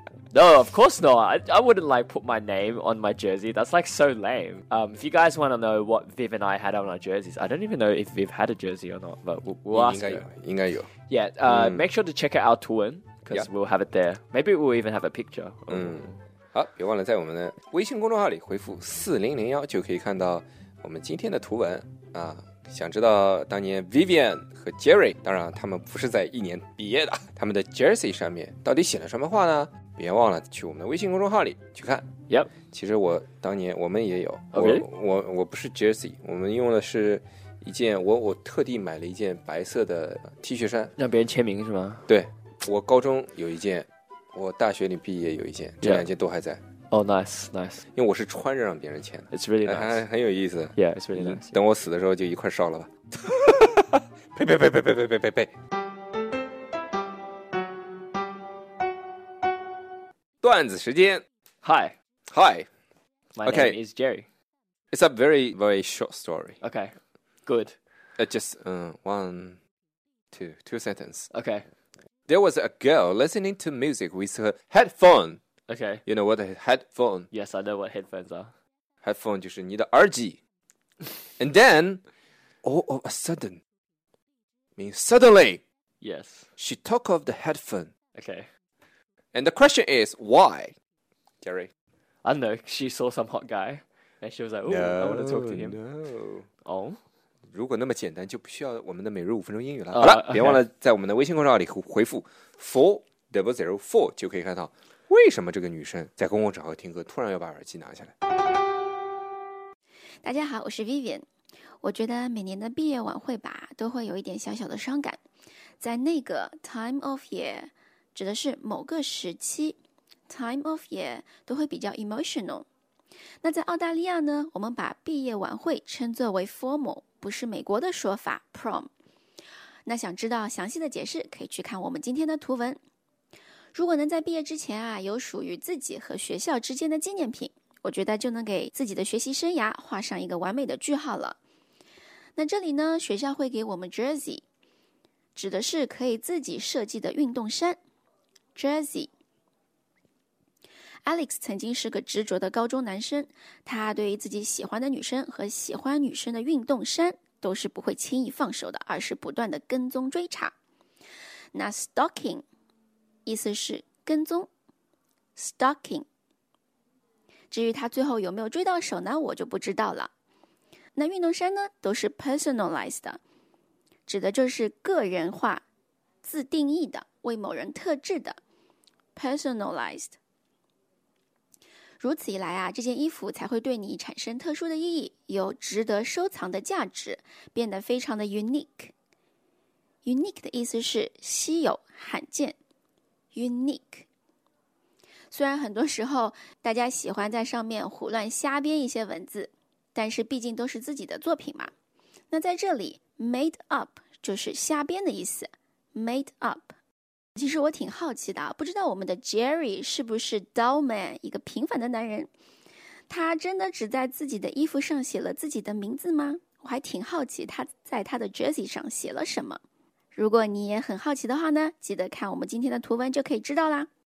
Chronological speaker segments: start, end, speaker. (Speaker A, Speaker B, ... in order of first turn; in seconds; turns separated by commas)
Speaker A: 0.3-10.3, Speaker B: 9.7-10.9, Speaker A: 11.1-16.2, Speaker B: 11.4-11.8, Speaker B: 15.7-32.1, Speaker B: 32.6-40.9, Speaker A: 34.5-34.8, Speaker A: 41.0-42.1, Speaker B: 42.1-46.6, Speaker A: 45.8-46.1, Speaker A: 46.9-47.8, Speaker B: 47.9-55.5, Speaker A: 49.3-50.0, Speaker A: 50.7-51.5, Speaker B: 60.4-61.2, Speaker A: 61.6-61.9, Speaker B: 62.3-62.7, Speaker A: 63.3-64.2, Speaker B: 63.4-63.8, Speaker B: 64.9-66.6, Speaker A: 66.6-67.8, Speaker B: 68.2-69.6, Speaker B: 70.3-71.3, Speaker A: 71.3-71.6, Speaker B: 72.3-75.4, Speaker A: 75.7-76.0, Speaker B: 76.0-77.3, Speaker A: 77.3-78.5, Speaker B: 79.0-80.4, Speaker B: 81.4-82.0, Speaker B: 82.6-83.6, Speaker B: 84.8-85.6, Speaker A: 86.0-86.5, Speaker B: 86.6-87.9, Speaker A: 88.1-88.5, Speaker B: 89.3-90.7, Speaker B: 91.4-91.7, Speaker A: 92.2-95.8, Speaker B: 94.7-96.5, Speaker A: 96.6-97.0, Speaker B: 97.5-108.1, Speaker A: 99.9-100.6, Speaker C: 110.2-111.2, Speaker C: 111.8-115.2, Speaker C: 115.8-119.8, Speaker C: 120.3-122.7, Speaker C: 123.4-128.9, Speaker C: 129.8-132.8, Speaker C: 133.7-141.4, Speaker C: 142.3-144.4, Speaker C: 145.3-147.8, Speaker C: 148.5-149.1, Speaker C: 151.0-160.5, Speaker C: 161.5-162.4, Speaker C: 163.2-164.5, Speaker C: 165.3-166.1, Speaker C: 167.5-170.1, Speaker C: 170.9-173.2, Speaker C: 174.1-175.6, Speaker C: 176.2-178.4, Speaker C: 179.1-180.1, Speaker C: 182.0-188.9, Speaker C: 190.0-192.6, Speaker C: 193.3-194.1, Speaker C: 195.3-201.7, Speaker C: 202.3-206.7, Speaker C: 207.3-212.3, Speaker C: 213.1-219.6, Speaker C: 220.1-223.9